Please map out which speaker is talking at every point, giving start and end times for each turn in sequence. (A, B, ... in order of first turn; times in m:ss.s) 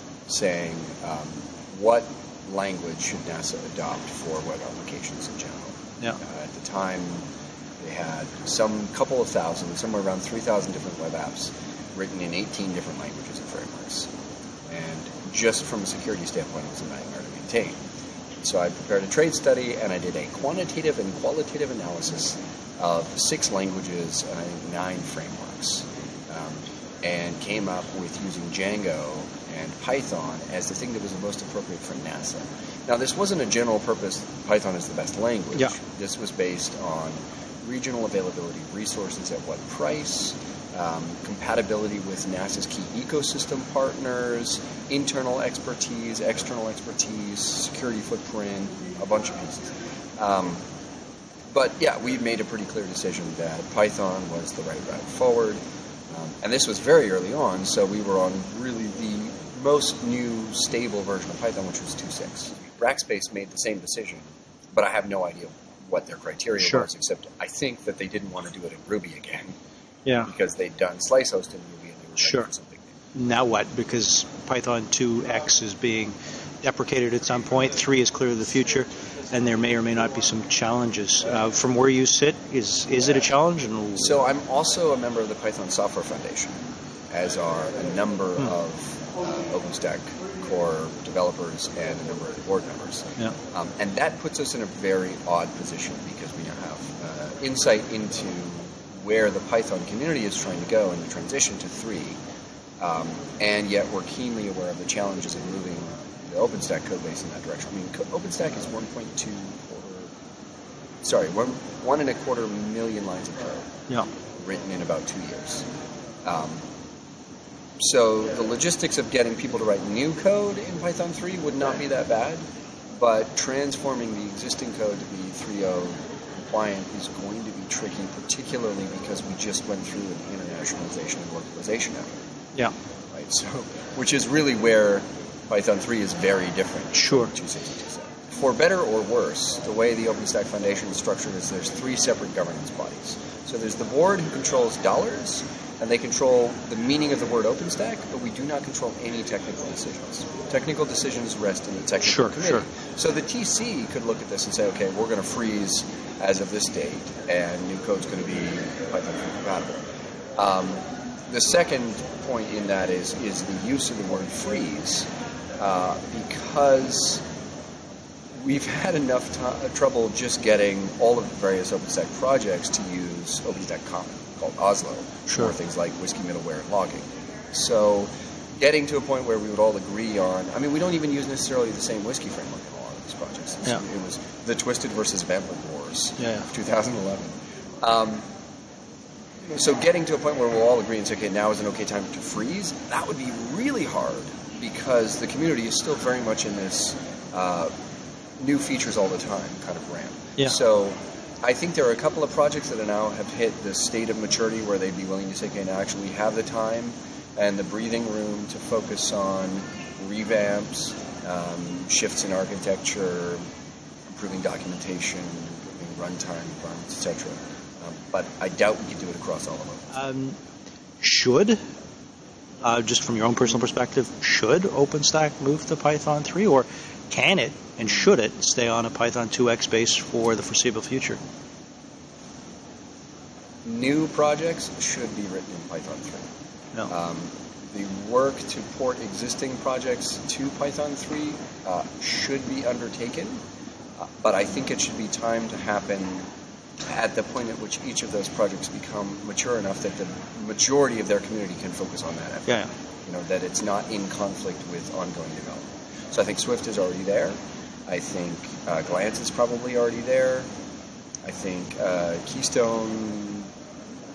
0:00.3-0:07.2 A
0:07.8-0:14.1 A
0:14.7-0:17.8 A
0:18.4-0:50.6 A
0:51.5-0:55.6 A
0:56.1-1:09.5 A
1:06.6-1:06.8 B
1:10.2-1:13.0 A
1:12.2-1:12.5 B
1:13.1-1:24.2 B
1:24.0-1:26.6 A
1:27.1-1:42.2 A
1:42.8-1:50.1 A
1:51.0-1:53.7 A
1:54.4-1:55.6 A
1:56.2-1:56.6 A
1:57.8-2:02.4 A
2:03.0-2:12.1 A
2:13.1-2:39.8 A
2:17.0-2:17.3 B
2:32.0-2:32.6 B
2:40.4-2:47.2 A
2:48.4-3:08.2 A
2:55.3-2:55.5 B
3:06.2-3:06.5 B
3:09.5-3:17.7 A
3:18.4-3:33.4 A
3:34.1-3:40.0 A
3:39.9-3:40.4 B
3:41.0-3:41.6 B
3:42.6-3:51.2 B
3:53.6-3:56.2 A
3:56.9-4:03.4 A
4:04.0-4:06.3 A
4:06.9-4:17.4 A
4:17.9-4:20.5 A
4:21.2-4:23.5 A